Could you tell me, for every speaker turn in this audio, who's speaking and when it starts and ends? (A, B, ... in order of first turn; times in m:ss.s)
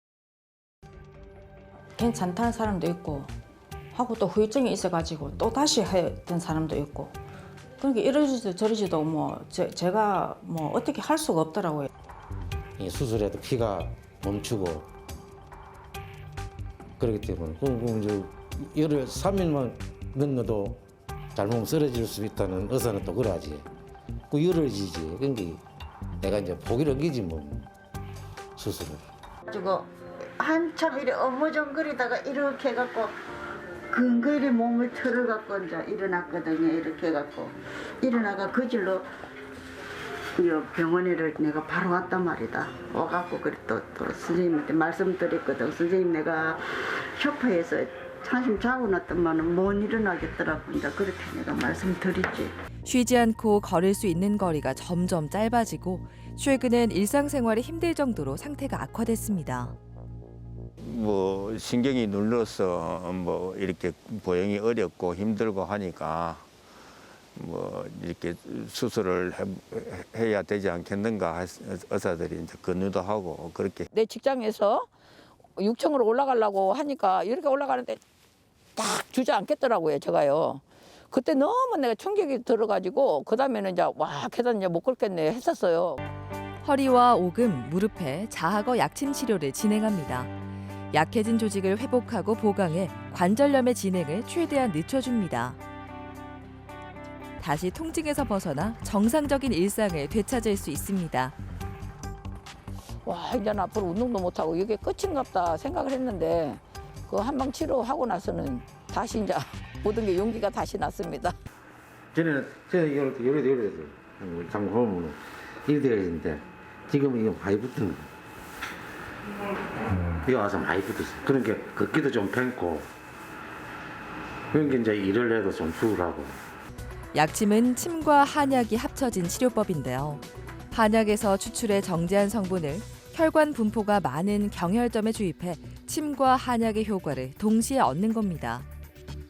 0:02.0-0:03.4 A
0:03.9-0:07.2 A
0:07.8-0:11.9 A
0:12.8-0:14.9 B
0:17.0-0:20.8 B
0:21.3-0:23.7 B
0:24.3-0:25.6 B
0:26.2-0:27.7 B
0:28.6-0:29.0 B
0:29.5-0:33.2 C
0:33.9-0:39.0 C
0:40.4-0:52.5 C
0:52.8-0:59.8 D
1:00.8-1:06.5 E
1:07.4-1:13.9 E
1:13.9-1:14.9 F
1:15.6-1:18.0 F
1:18.8-1:26.0 F
1:26.6-1:30.3 D
1:30.9-1:35.6 D
1:37.4-1:41.4 D
1:43.0-1:51.4 F
1:52.1-1:58.1 B
1:59.9-2:02.9 B
2:04.5-2:06.4 B
2:07.1-2:18.7 D